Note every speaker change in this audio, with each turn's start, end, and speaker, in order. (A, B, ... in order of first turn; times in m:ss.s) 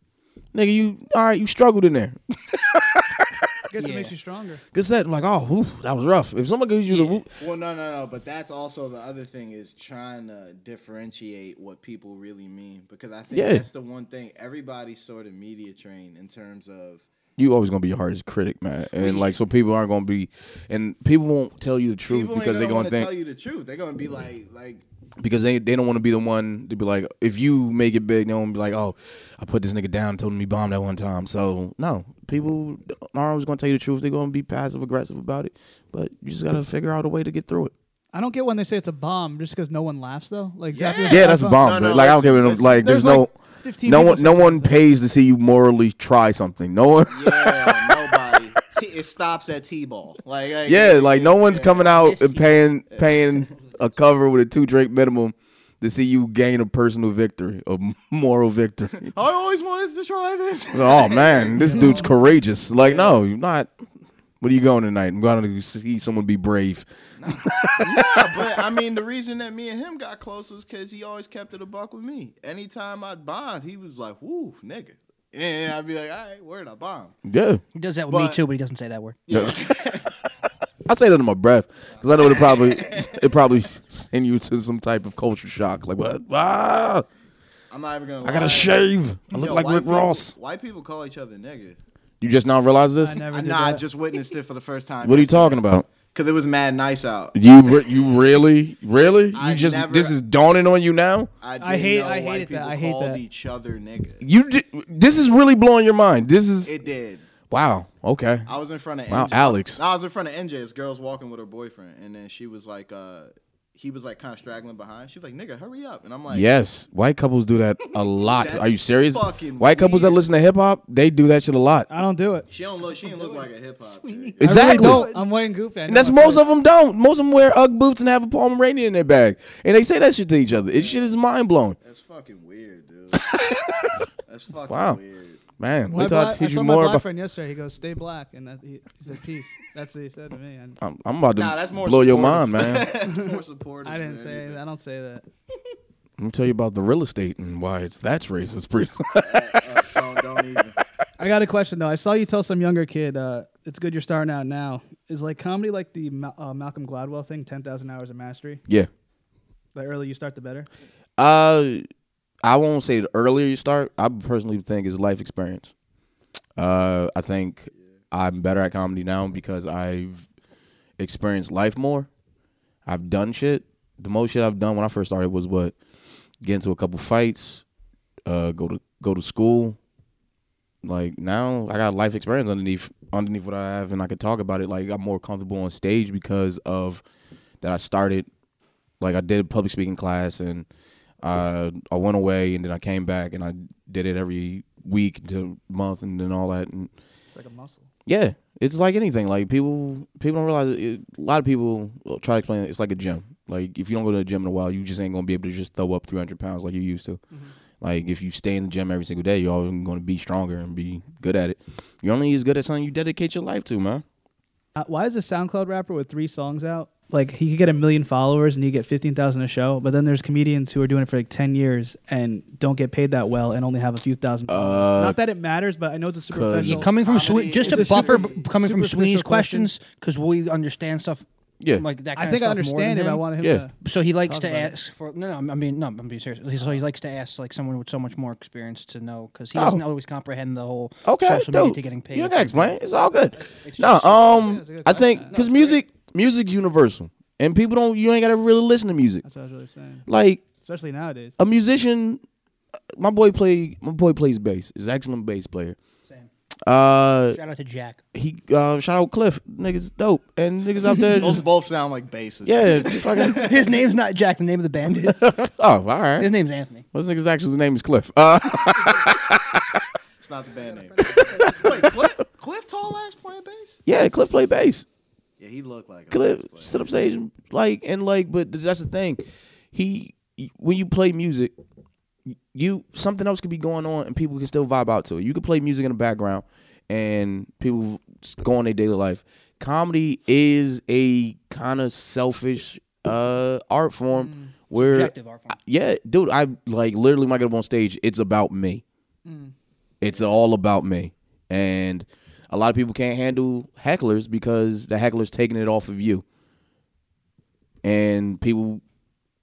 0:00.5-0:03.4 A
0:03.7-0:04.6 B
0:03.8-0:04.1 C
0:04.7-0:07.3 A
0:06.9-0:07.2 C
0:07.4-0:17.1 D
0:13.3-0:13.7 A
0:17.4-0:23.1 A
0:19.0-0:19.3 C
0:22.1-0:24.8 D
0:25.2-0:37.7 A
0:38.1-0:41.9 B
0:40.7-0:43.1 D
0:41.1-0:48.0 A
0:42.8-0:44.8 B
0:47.1-0:52.1 D
0:50.6-0:59.1 A
0:51.9-0:52.6 C
0:52.9-0:53.2 D
0:59.0-1:02.1 D
1:00.7-1:03.7 A
1:02.8-1:03.2 D
1:04.4-1:08.6 A
1:07.2-1:17.2 D
1:17.2-1:17.6 A
1:17.8-1:19.2 C
1:18.1-1:18.4 D
1:19.3-1:20.1 D
1:19.3-1:19.6 A
1:20.9-1:27.0 A
1:22.1-1:23.4 D
1:27.7-1:31.8 D
1:28.2-1:30.3 A
1:32.2-1:33.2 A
1:33.0-1:33.8 B
1:33.3-1:37.4 D
1:35.0-1:35.9 A
1:37.3-1:41.3 A
1:39.3-1:40.1 D
1:41.4-1:44.2 D
1:41.6-1:43.2 B
1:44.2-1:46.7 A
1:46.6-1:47.2 D
1:47.5-1:48.5 A
1:48.4-1:56.5 D
1:49.1-1:49.8 A
1:56.3-2:01.9 A
1:58.2-2:00.2 D
2:01.9-2:02.4 B
2:02.5-2:05.0 D
2:03.0-2:03.4 C
2:04.0-2:05.2 C
2:04.4-2:05.1 A
2:04.4-2:06.5 B
2:05.9-2:11.8 A
2:10.7-2:11.1 D
2:11.8-2:13.3 D
2:13.1-2:13.9 A
2:14.3-2:15.4 D
2:14.7-2:15.0 A
2:15.6-2:17.0 A
2:15.9-2:20.8 B
2:20.8-2:22.9 A
2:21.4-2:24.6 D
2:23.0-2:25.2 B
2:26.2-2:29.8 A
2:29.2-2:30.8 D
2:31.2-2:38.6 B
2:39.8-2:40.7 B
2:41.2-2:41.8 A
2:42.4-2:45.7 A
2:46.6-2:50.3 A
2:51.0-2:52.1 A
2:52.9-2:55.8 A
2:56.4-2:57.6 A
2:58.2-2:59.8 A
3:00.8-3:07.0 A
3:07.6-3:08.3 A
3:09.0-3:10.7 A
3:11.2-3:16.9 A
3:17.3-3:17.9 B
3:18.1-3:27.2 A
3:27.8-3:34.0 A
3:34.8-3:47.0 B
3:44.5-3:45.2 A
3:46.3-3:46.9 A
3:46.6-3:53.2 C
3:46.9-3:48.4 D
3:47.6-3:49.7 B
3:52.1-3:53.7 B
3:53.4-3:53.6 A
3:53.8-4:02.8 C
3:54.2-3:54.7 B
3:59.6-3:59.8 A
4:01.0-4:09.2 A
4:03.6-4:04.4 C
4:04.1-4:05.4 B
4:05.3-4:05.8 C
4:09.2-4:10.1 B
4:10.1-4:10.4 A
4:10.6-4:11.4 B
4:11.4-4:12.2 A
4:12.9-4:15.8 A
4:16.6-4:17.4 A
4:17.3-4:18.0 C
4:18.1-4:21.4 A
4:21.1-4:23.7 D
4:22.4-4:23.6 A
4:23.3-4:25.3 C
4:25.0-4:26.3 A
4:26.2-4:26.9 C
4:26.9-4:29.8 A
4:30.2-4:33.8 D
4:31.3-4:32.1 A
4:33.8-4:34.8 A
4:35.4-4:36.9 D
4:36.1-4:41.5 A
4:42.3-4:58.8 A
4:54.1-4:54.5 B
4:54.7-4:55.6 C
4:59.3-4:59.5 B
5:00.0-5:06.2 A
5:07.8-5:08.8 A